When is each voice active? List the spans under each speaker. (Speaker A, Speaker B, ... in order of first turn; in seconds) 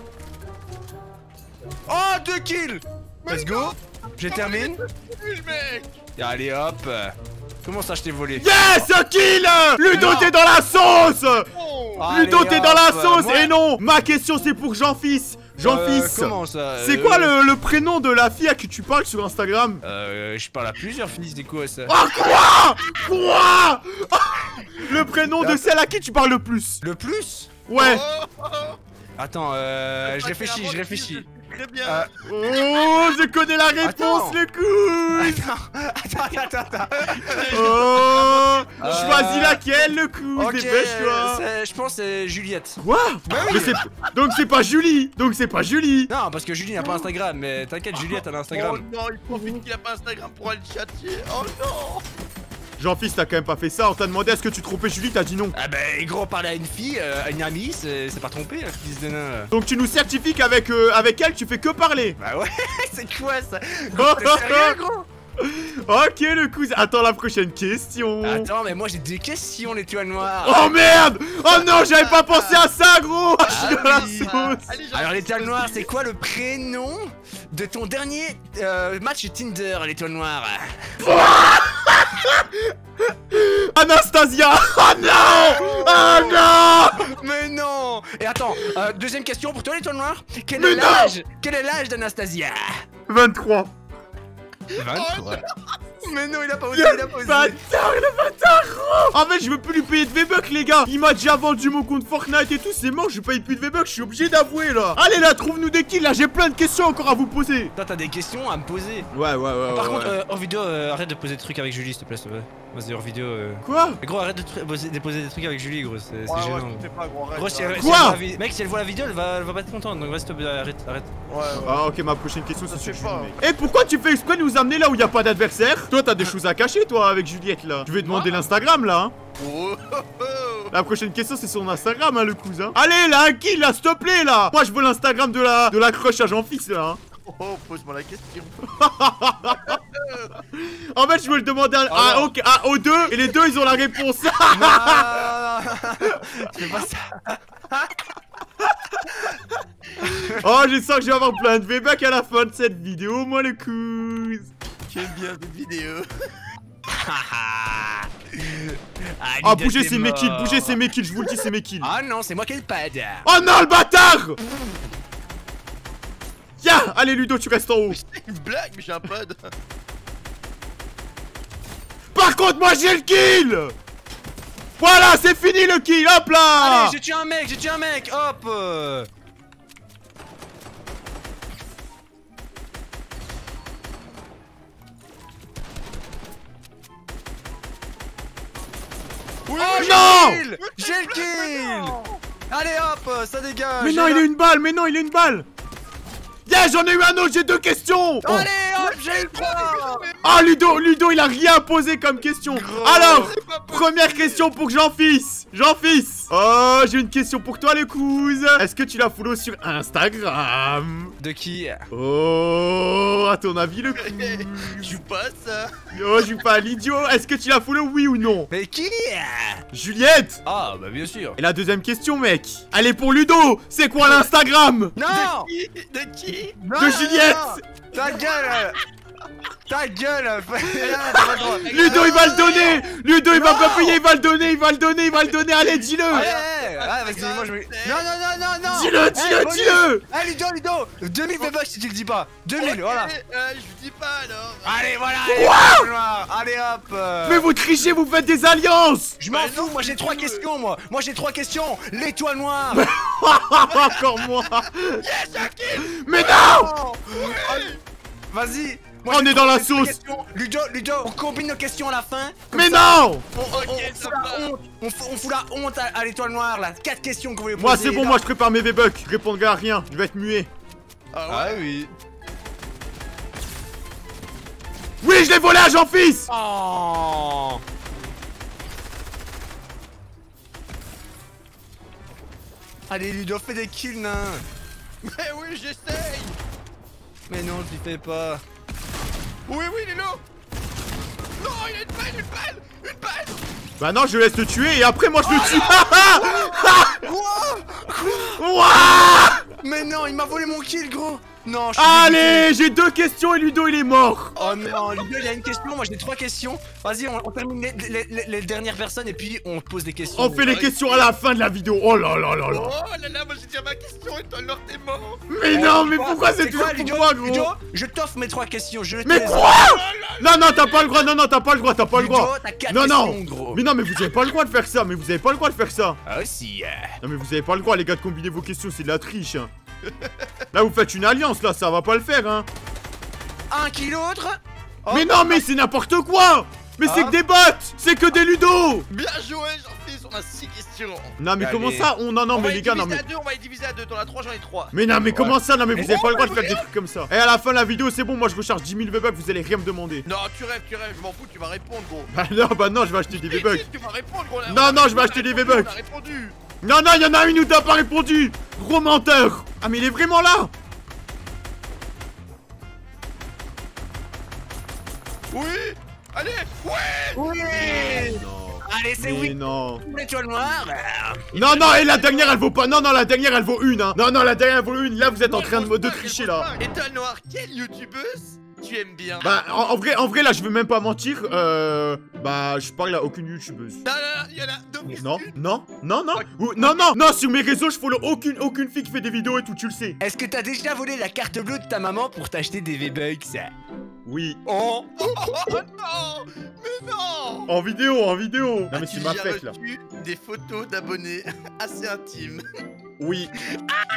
Speaker A: 1.9-4.8, 6.2-8.5, 9.8-10.3, 12.0-13.5, 15.6-17.3, 19.8-21.9, 25.2-25.7, 26.8-27.6, 29.2-31.2, 31.8-32.1, 33.8-34.4, 35.1-37.6, 38.8-39.6, 40.4-43.8, 46.1-48.8, 55.5-59.5, 62.2-65.1, 68.2-70.9, 73.5-74.1, 74.9-81.1, 85.0-92.8, 94.8-95.4, 96.0-99.0, 107.8-109.1, 109.7-121.1, 141.9-142.3, 144.5-147.9, 150.0-150.4, 156.9-160.8, 161.8-163.3, 176.5-179.1, 189.5-191.9, 192.5-194.3, 198.2-200.1, 202.4-203.3, 211.2-211.8, 218.5-219.6, 220.4-221.4, 224.9-225.5, 226.6-228.8, 229.7-232.2, 233.3-234.0, 236.1-243.1, 244.6-247.5, 249.2-252.9, 258.3-268.2, 271.3-271.9, 276.3-277.6, 282.9-284.4, 287.3-288.4, 296.1-302.5, 304.4-310.5, 315.5-319.6, 321.9-323.6, 326.0-326.9, 333.5-335.4, 336.8-337.2, 341.4-341.9, 345.1-346.1, 367.1-371.9, 390.0-393.5
Speaker B: 3.2-6.0, 11.5-12.1, 27.7-28.8, 30.0-32.1, 32.6-32.9, 37.2-39.3, 48.5-52.0, 71.5-72.7, 73.4-75.9, 94.8-95.5, 116.3-118.1, 121.3-121.7, 122.6-123.4, 128.0-128.4, 129.4-130.7, 137.2-138.6, 139.7-140.4, 154.9-156.1, 167.9-169.5, 189.6-190.1, 190.6-192.2, 198.8-200.5, 203.2-204.5, 213.9-215.7, 225.1-226.6, 230.8-232.8, 236.1-238.1, 242.6-244.8, 249.3-250.5, 253.7-257.8, 263.4-264.5, 271.1-271.6, 285.0-286.4, 289.5-290.2, 291.4-293.4, 295.2-296.1, 304.4-305.2, 310.4-311.1, 312.5-315.2, 319.4-321.1, 329.9-330.2, 338.9-341.2, 342.3-344.7, 345.8-346.7, 350.0-352.1, 353.1-356.4, 365.3-368.1, 371.8-372.3, 375.2-379.3, 383.8-385.4, 386.1-386.9, 394.9-397.5, 398.7-402.4
Speaker C: 8.3-11.5, 12.1-19.8, 21.9-26.8, 27.7-28.0, 32.2-35.5, 37.5-41.4, 42.8-46.1, 49.3-49.6, 52.8-55.5, 59.5-62.2, 63.9-64.8, 65.4-68.5, 70.4-74.7, 81.0-82.6, 83.3-87.1, 90.5-91.2, 93.1-93.7, 96.7-98.2, 99.1-107.7, 109.1-110.2, 113.6-114.0, 117.8-118.2, 121.6-129.1, 130.7-137.0, 138.7-139.8, 140.5-145.1, 150.3-154.5, 159.4-161.9, 163.2-164.4, 166.6-168.0, 172.1-173.7, 174.8-176.9, 189.7-190.4, 193.8-195.4, 196.4-198.5, 200.2-211.2, 211.9-215.0, 215.9-218.5, 219.7-220.4, 221.4-224.9, 226.7-227.6, 231.3-236.3, 238.7-240.0, 245.3-245.9, 247.2-249.2, 252.7-255.0, 255.7-256.7, 259.1-260.0, 262.5-263.2, 267.5-270.5, 275.0-276.3, 293.8-297.0, 298.3-299.4, 301.8-304.4, 310.1-312.7, 315.3-317.5, 319.0-326.0, 327.0-329.5, 330.5-332.5, 334.9-338.9, 341.2-343.0, 344.7-350.1, 352.1-353.7, 354.5-355.7, 356.6-360.5, 367.8-369.8, 371.3-376.5, 379.2-383.8, 385.0-390.0, 394.1-394.4, 397.5-399.5, 403.0-403.3